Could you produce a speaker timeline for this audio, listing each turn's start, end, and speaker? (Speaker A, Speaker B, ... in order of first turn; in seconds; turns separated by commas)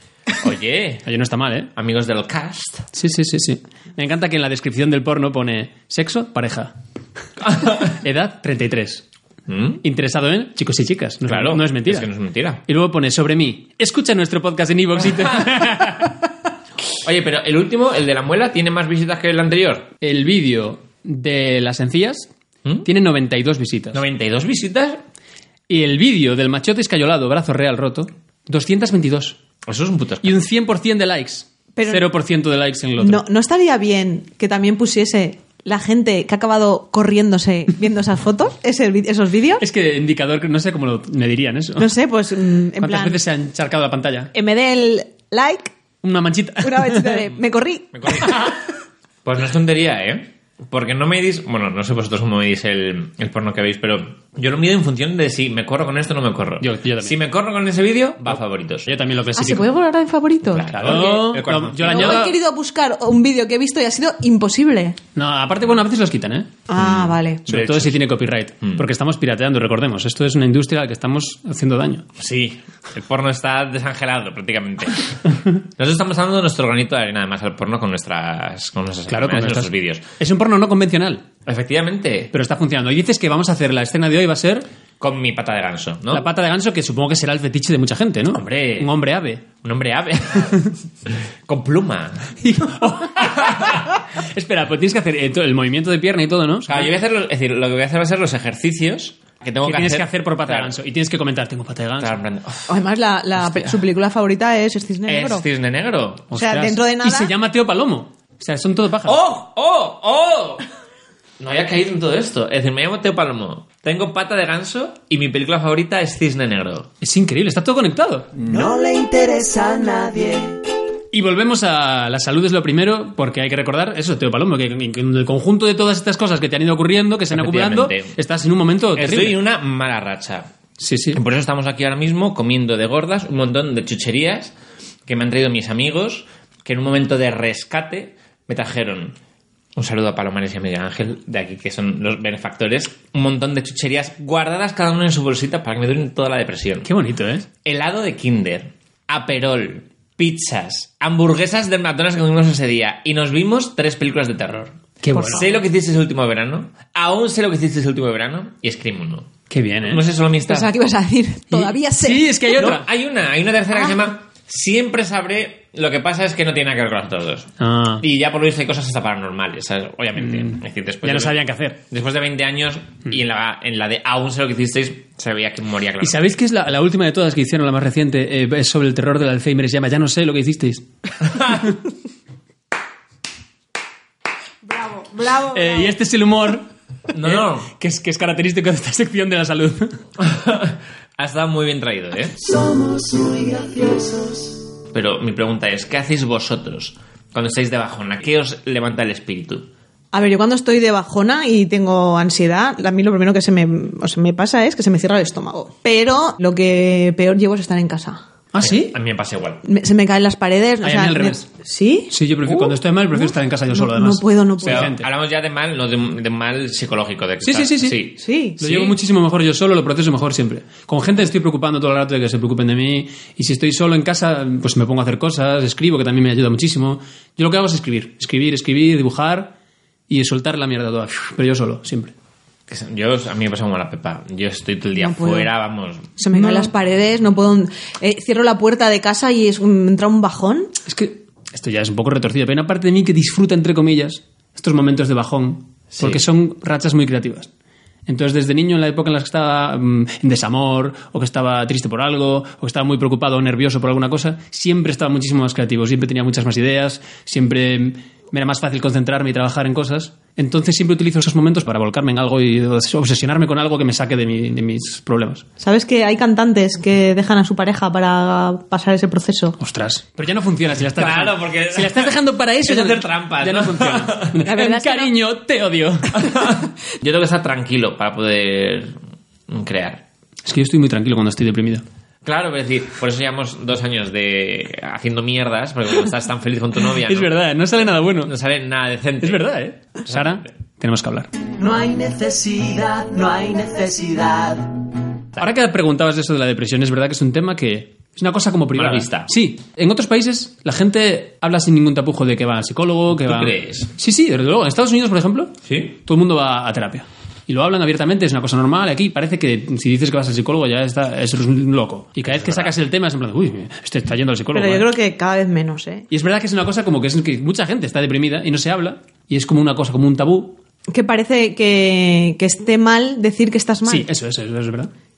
Speaker A: 0.4-1.1, Speaker B: 1.0-1.7, Speaker A: 1.8-2.9, Speaker B: 2.9-6.7, Speaker A: 7.5-7.9, Speaker B: 7.8-9.0, Speaker A: 9.5-9.8, Speaker B: 9.8-12.1, Speaker A: 11.2-12.6, Speaker B: 12.7-16.2, Speaker A: 15.0-15.9, Speaker A: 16.9-19.9, Speaker B: 20.0-22.3, Speaker B: 22.8-24.0, Speaker A: 23.9-25.0, Speaker B: 25.7-29.4, Speaker A: 29.6-30.4, Speaker B: 30.2-33.2, Speaker C: 31.8-32.1, Speaker C: 33.0-39.6, Speaker B: 39.6-41.9, Speaker C: 41.8-43.2, Speaker B: 42.8-44.3, Speaker C: 44.3-45.7, Speaker B: 46.0-47.2, Speaker C: 46.6-48.5, Speaker A: 47.9-48.5, Speaker A: 49.2-59.0, Speaker B: 56.6-57.2, Speaker B: 58.9-59.7, Speaker C: 59.4-61.2, Speaker A: 60.4-62.3, Speaker B: 60.7-62.3, Speaker C: 61.8-65.0, Speaker B: 65.1-66.5, Speaker C: 66.7-67.5, Speaker A: 66.7-68.0, Speaker B: 67.5-72.1, Speaker A: 72.2-80.1, Speaker B: 79.1-81.2, Speaker A: 81.5-82.3, Speaker B: 82.3-84.6, Speaker A: 85.0-86.3, Speaker B: 86.1-89.4, Speaker A: 88.3-88.9, Speaker A: 89.6-92.3, Speaker B: 92.4-96.9, Speaker A: 93.1-93.8, Speaker A: 96.6-100.7, Speaker B: 99.6-102.2, Speaker A: 102.0-102.8, Speaker C: 102.7-105.4, Speaker A: 103.3-103.8, Speaker A: 105.0-106.3, Speaker B: 106.3-109.2, Speaker C: 106.3-107.3, Speaker A: 109.0-110.6, Speaker A: 111.4-116.9, Speaker B: 117.0-118.4, Speaker D: 118.5-120.6, Speaker B: 121.1-129.4, Speaker A: 127.3-128.2, Speaker A: 128.9-130.5, Speaker B: 130.8-131.2, Speaker A: 131.1-134.5, Speaker A: 135.1-139.2, Speaker A: 139.8-146.9, Speaker B: 146.8-147.4, Speaker A: 147.6-160.7, Speaker B: 155.0-155.5, Speaker C: 155.1-155.4, Speaker B: 159.5-160.0, Speaker C: 160.5-162.6, Speaker B: 161.5-162.9, Speaker A: 162.6-176.2, Speaker B: 167.6-168.0, Speaker B: 170.2-171.8, Speaker B: 176.0-180.8, Speaker B: 181.4-181.7, Speaker C: 184.6-185.9, Speaker B: 185.5-189.9, Speaker A: 187.1-187.7, Speaker A: 190.2-192.4, Speaker D: 192.4-194.5, Speaker A: 194.9-199.7, Speaker C: 200.1-208.2, Speaker B: 208.5-209.0, Speaker A: 208.6-209.6, Speaker C: 209.6-214.9, Speaker B: 210.8-211.4, Speaker B: 212.1-215.1, Speaker A: 214.6-219.0, Speaker B: 217.4-229.5, Speaker C: 218.2-218.6, Speaker B: 230.1-232.1, Speaker A: 232.7-236.2, Speaker C: 235.0-235.5, Speaker C: 236.2-240.7, Speaker B: 236.3-236.7, Speaker B: 240.8-247.5, Speaker A: 245.9-246.2, Speaker B: 248.1-265.4, Speaker C: 265.6-269.6, Speaker B: 269.6-276.3, Speaker A: 270.9-272.1, Speaker A: 272.6-274.4, Speaker C: 274.4-275.1, Speaker A: 276.2-279.0, Speaker A: 279.5-280.0, Speaker B: 280.4-281.8, Speaker A: 282.2-287.3, Speaker B: 287.1-288.3, Speaker A: 288.2-289.5, Speaker B: 289.2-291.3, Speaker A: 290.1-290.5, Speaker D: 291.6-294.7, Speaker B: 295.4-314.9, Speaker A: 298.7-299.3, Speaker A: 303.2-303.9, Speaker A: 305.6-305.9, Speaker A: 312.3-312.7, Speaker C: 314.5-316.1, Speaker B: 316.1-320.6, Speaker C: 320.9-324.1, Speaker B: 323.9-324.9